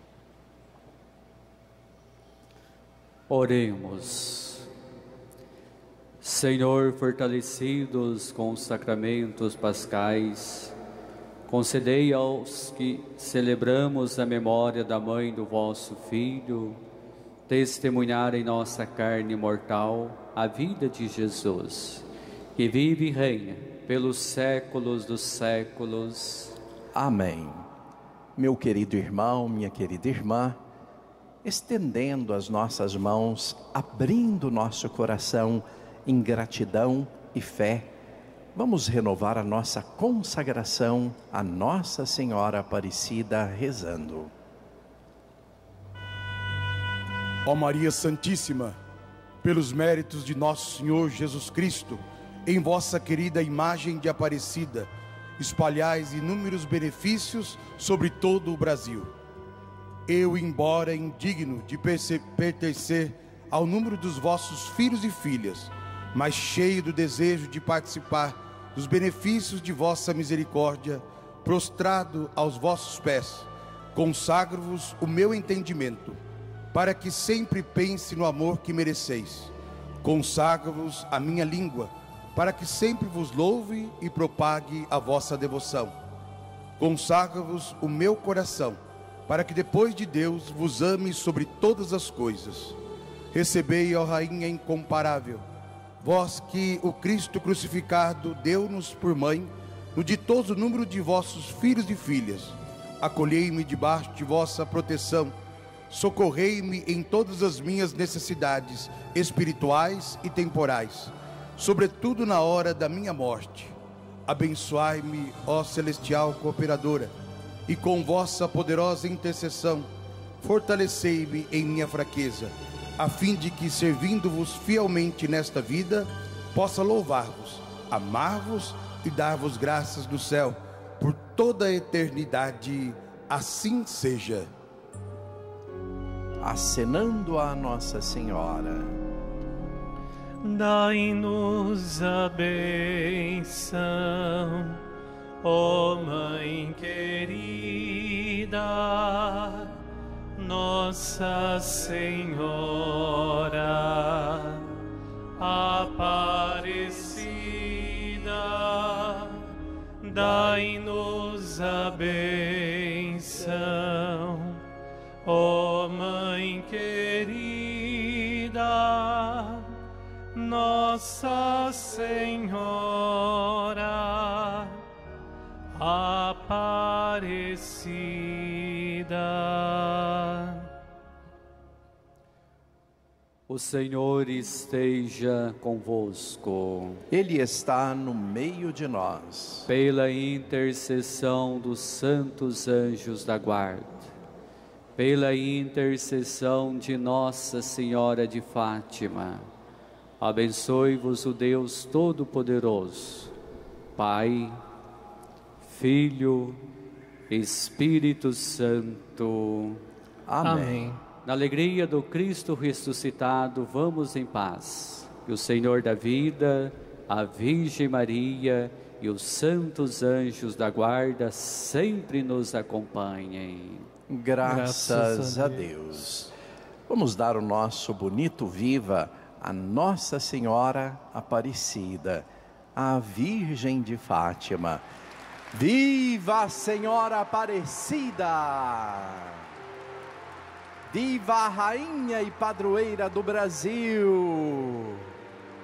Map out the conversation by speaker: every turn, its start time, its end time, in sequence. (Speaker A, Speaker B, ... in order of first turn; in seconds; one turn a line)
Speaker A: 3.3-4.7
Speaker A: 6.2-10.7
Speaker A: 11.5-16.8
Speaker A: 17.5-22.0
Speaker A: 22.6-26.6
Speaker B: 26.9-27.7
Speaker B: 28.4-30.6
Speaker B: 31.4-37.9
Speaker B: 38.5-44.3
Speaker C: 47.4-48.8
Speaker C: 49.4-59.1
Speaker C: 60.1-76.2
Speaker C: 76.7-85.9
Speaker C: 86.8-92.8
Speaker C: 93.3-95.4
Speaker C: 96.0-105.3
Speaker C: 105.9-113.7
Speaker C: 114.2-117.1
Speaker C: 117.7-119.9
Speaker C: 120.4-134.5
Speaker B: 136.4-139.0
Speaker D: 140.4-144.8
Speaker D: 145.4-149.7
Speaker D: 150.3-154.7
Speaker D: 155.4-159.5
Speaker D: 160.0-164.6
Speaker D: 165.2-169.8
Speaker D: 170.3-174.8
Speaker D: 175.7-180.7
Speaker A: 183.5-187.0
Speaker B: 187.1-189.7
Speaker A: 189.7-194.1
Speaker A: 195.0-199.5
Speaker A: 200.2-203.3
Speaker A: 203.9-204.6
Speaker A: 205.6-206.6
Speaker A: 207.3-209.8
Speaker B: 210.3-210.9
Speaker A: 211.2-223.9
Speaker B: 224.1-226.3
Speaker D: 224.5-225.4
Speaker B: 226.9-234.8
Speaker B: 235.5-239.4
Speaker B: 240.9-245.1